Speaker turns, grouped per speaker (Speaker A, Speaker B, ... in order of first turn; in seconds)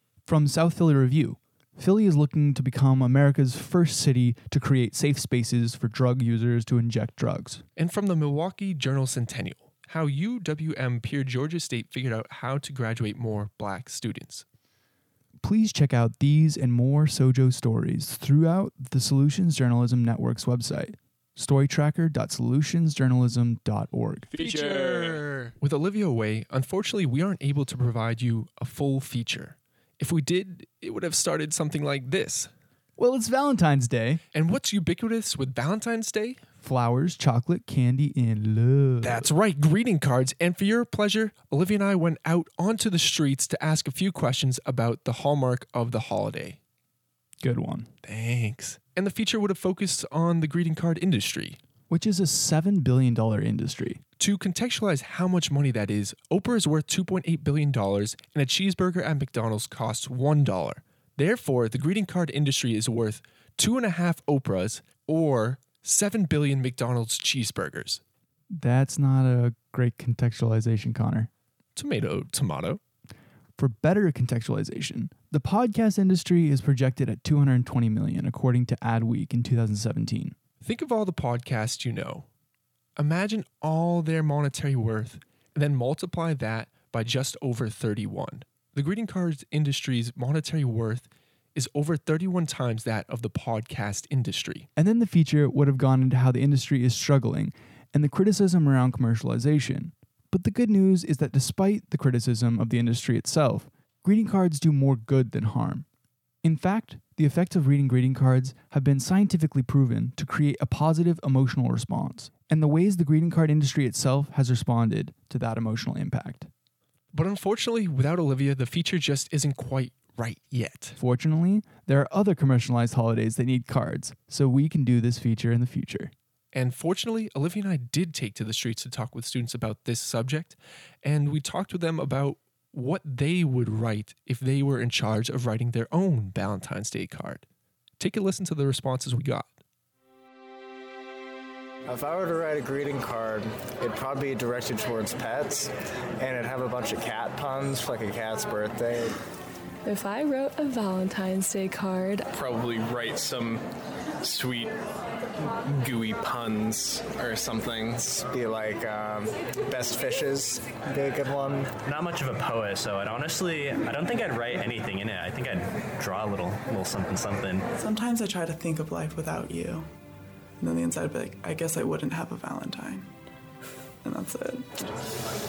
Speaker A: 0.3-7.6, 15.4-24.3, 33.0-34.2, 36.6-39.3, 47.4-47.9, 51.9-54.0, 68.5-71.3, 73.6-80.3, 94.8-105.9, 106.4-116.5, 121.0-126.1
Speaker B: 7.8-14.4, 24.4-32.5, 34.3-36.4, 39.0-46.6, 48.0-51.6, 54.2-68.0, 71.8-72.8, 80.6-82.3, 83.0-94.7, 117.1-121.0, 126.5-137.4, 138.0-139.6
Speaker C: 141.9-149.2, 156.6-161.7
Speaker D: 149.8-152.3
Speaker E: 152.4-153.6, 154.3-154.7, 156.1-156.6
Speaker F: 161.8-167.7
Speaker G: 167.8-169.9, 170.6-173.1, 174.0-174.9